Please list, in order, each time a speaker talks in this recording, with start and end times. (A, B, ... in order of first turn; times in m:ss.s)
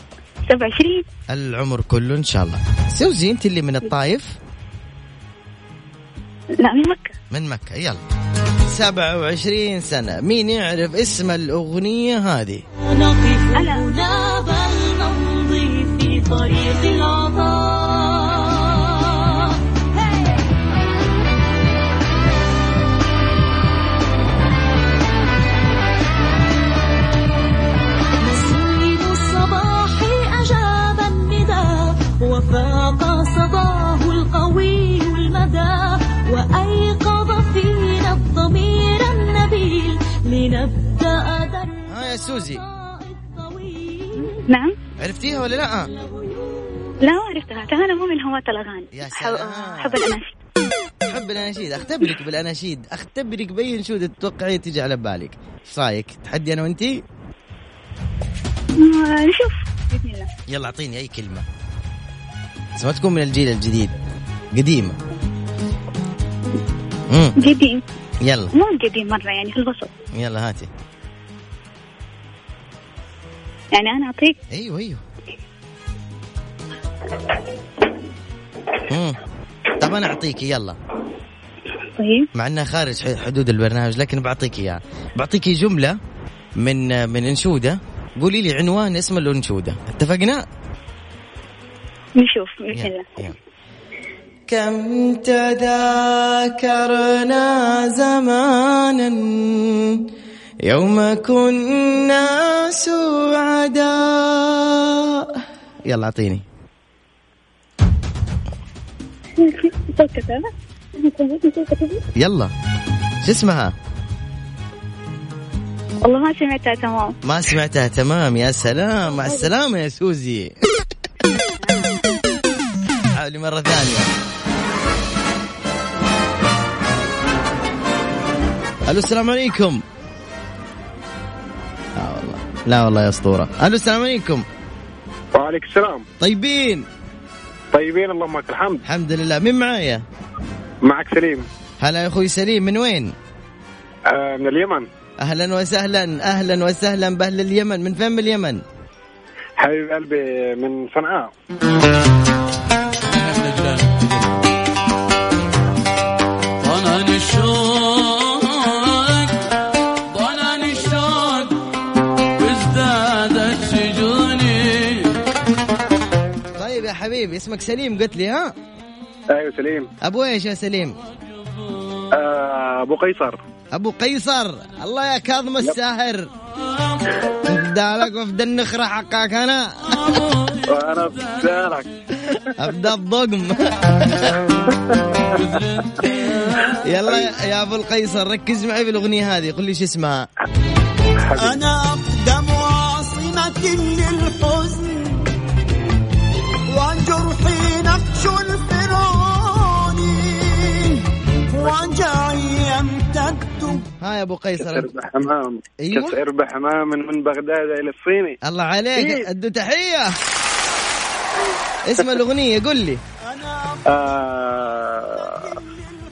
0:00.5-0:01.1 A
0:01.3-0:04.4 B
0:06.6-0:07.1 A
0:07.3-0:08.0 B
0:08.7-0:12.6 B
0:12.8-0:20.3 C
0:13.6-0:13.9 A
0:28.2-0:44.5 C
0:41.9-0:42.6 B
0:44.5-0:44.8 A
0:45.0-0:45.9 B
0:45.8-0:47.0 C
0:47.0-0:50.3 A
0:48.9-0:50.0 B
0:51.1-0:57.0 B
0:58.8-1:00.3 A
1:00.5-1:01.4 B
1:02.8-1:03.9 B
1:04.5-1:05.0 B
1:07.1-1:07.4 B
1:07.4-1:07.8 A
1:08.2-1:08.5 B
1:08.5-1:09.9 A
1:10.1-1:10.7 B
1:13.7-1:14.4 A
1:14.5-1:15.0 B
1:18.9-1:19.2 B
1:19.8-1:20.8 B
1:22.0-1:22.3 A
1:22.4-1:26.0 B
1:26.6-1:30.5 B
1:32.2-1:33.1 A
1:32.7-1:33.4 B
1:34.5-1:40.0 B
1:40.7-1:46.4 B
1:49.4-1:52.0 A
1:52.2-1:52.5 B
1:53.2-1:53.8 B
1:56.0-1:57.2 A
1:57.2-2:00.5 B
1:59.2-1:59.5 A
2:01.6-2:01.9 A
2:03.2-2:04.1 B
2:08.9-2:09.8 B
2:12.0-2:14.4 B
2:15.3-2:16.1 D
2:16.2-2:16.9 B
2:17.7-2:18.8 D
2:18.8-2:20.0 B
2:20.8-2:21.5 D
2:21.8-2:23.1 B
2:24.1-2:24.9 D
2:25.2-2:28.6 B
2:29.6-2:31.3 D
2:33.1-2:34.2 E
2:36.6-2:39.3 E
2:40.1-2:41.5 E
2:42.4-2:45.0 E
2:46.6-2:48.5 B
2:49.3-2:49.9 D
2:50.0-2:51.0 B
2:52.1-2:53.4 D
2:53.7-2:56.3 B
2:57.4-3:00.2 B
3:00.7-3:01.9 D
3:02.2-3:04.4 B
3:04.7-3:05.4 D
3:05.4-3:05.9 E
3:06.8-3:10.3 B
3:11.3-3:11.6 D
3:11.4-3:15.2 F
3:16.7-3:23.8 F
3:24.0-3:25.0 B
3:24.6-3:28.4 D
3:25.8-3:26.2 B
3:28.4-3:30.2 B
3:31.8-3:33.0 B
3:33.2-3:33.8 F
3:33.9-3:35.6 D